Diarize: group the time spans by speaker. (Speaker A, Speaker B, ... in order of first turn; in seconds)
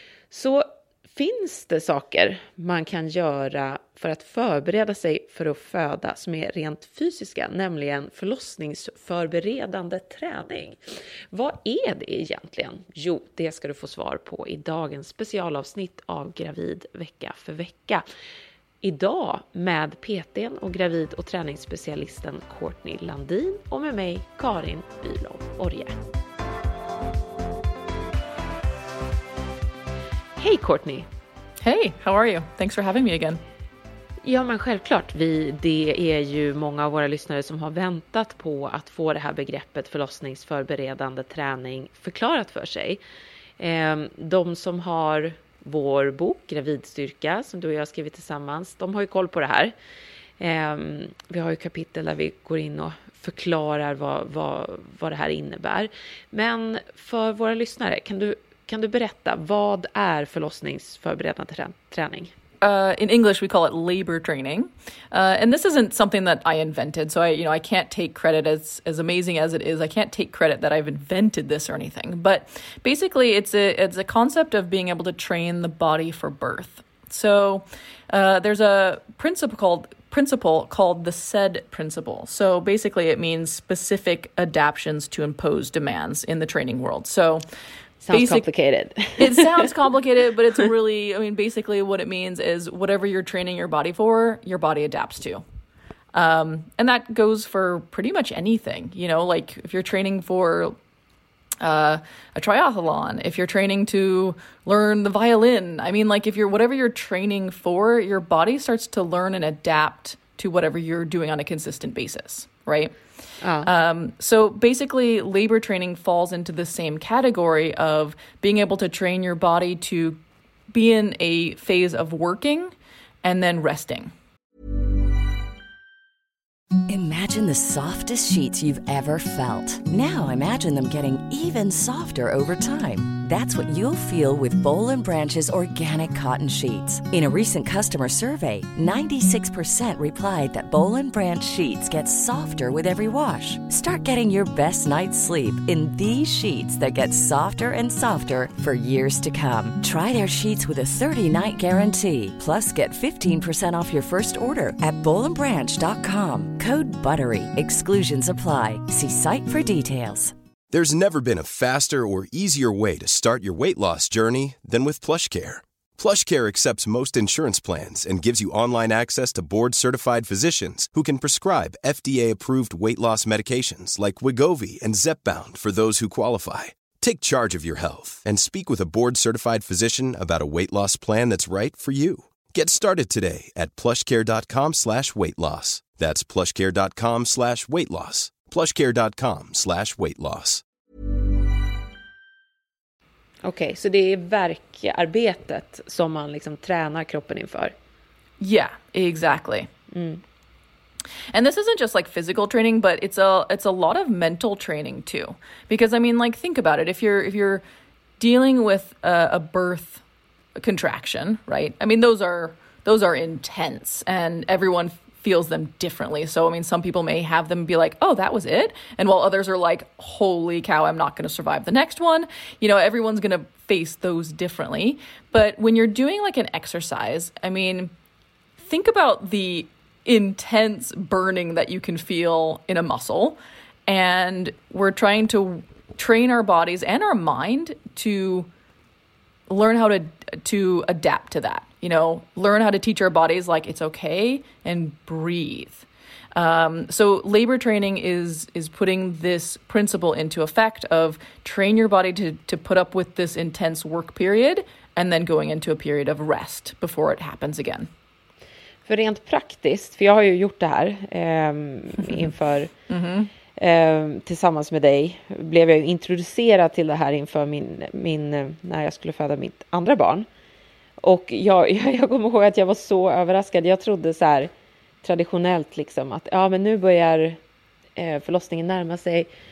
Speaker A: 0.3-10.8, 11.3-18.0, 18.8-26.0, 30.4-31.1, 34.2-43.0, 43.6-49.7, 50.4-62.3, 88.0-89.7, 113.4-113.7, 193.4-197.7, 199.9-200.2, 258.8-262.7, 263.6-270.3, 271.0-274.5, 275.0-277.4, 277.9-279.3
Speaker B: 31.6-33.4, 62.6-87.4, 88.1-88.5, 89.2-95.4, 96.1-100.8, 101.6-113.0, 113.6-124.1, 198.4-199.7, 201.3-207.6, 208.2-210.0, 210.6-227.9, 228.6-238.5, 239.5-257.9, 262.9-263.3
Speaker C: 126.9-160.3
Speaker D: 160.7-190.6